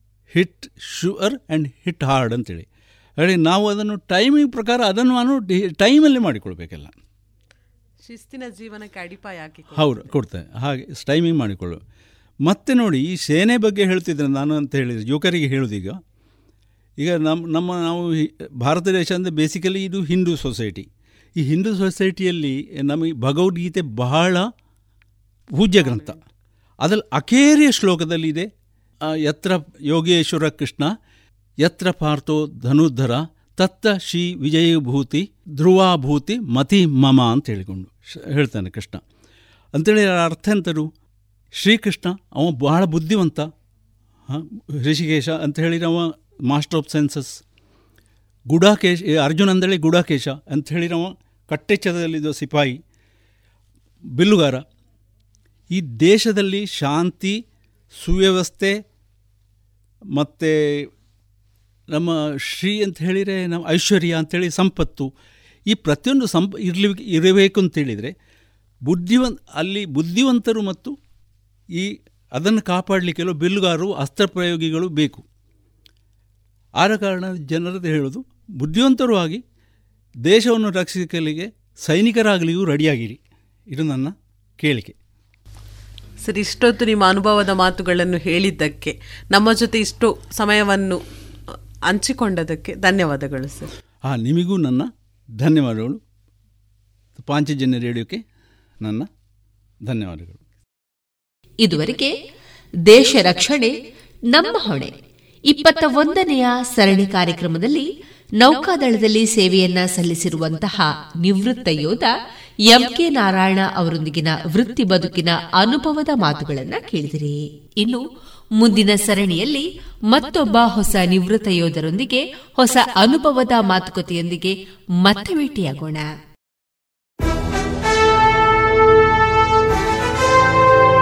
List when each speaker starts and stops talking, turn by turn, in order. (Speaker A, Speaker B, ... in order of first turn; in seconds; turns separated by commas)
Speaker A: 0.3-2.7, Speaker A: 3.2-6.9, Speaker B: 8.0-10.1, Speaker A: 9.8-11.8, Speaker A: 12.4-16.0, Speaker A: 17.0-20.9, Speaker A: 21.4-24.5, Speaker A: 25.6-26.2, Speaker B: 25.8-26.1, Speaker A: 26.8-28.5, Speaker A: 29.2-30.9, Speaker A: 31.6-39.0, Speaker A: 39.7-40.9, Speaker A: 41.6-43.5, Speaker A: 44.3-47.4, Speaker A: 48.5-52.8, Speaker A: 54.2-54.6, Speaker A: 55.7-57.4, Speaker A: 58.0-58.8, Speaker A: 60.1-60.9, Speaker A: 61.9-65.1, Speaker A: 65.7-68.1, Speaker A: 68.8-71.0, Speaker A: 71.7-75.2, Speaker A: 76.8-79.4, Speaker A: 80.2-83.2, Speaker A: 83.7-85.0, Speaker B: 86.2-91.0, Speaker B: 91.9-93.7, Speaker A: 94.1-96.0, Speaker A: 97.2-98.2, Speaker A: 98.8-99.1, Speaker A: 99.9-100.4, Speaker C: 101.6-102.1, Speaker C: 102.9-103.7, Speaker C: 104.3-104.9, Speaker C: 105.5-112.1, Speaker C: 112.7-118.0, Speaker C: 118.6-126.1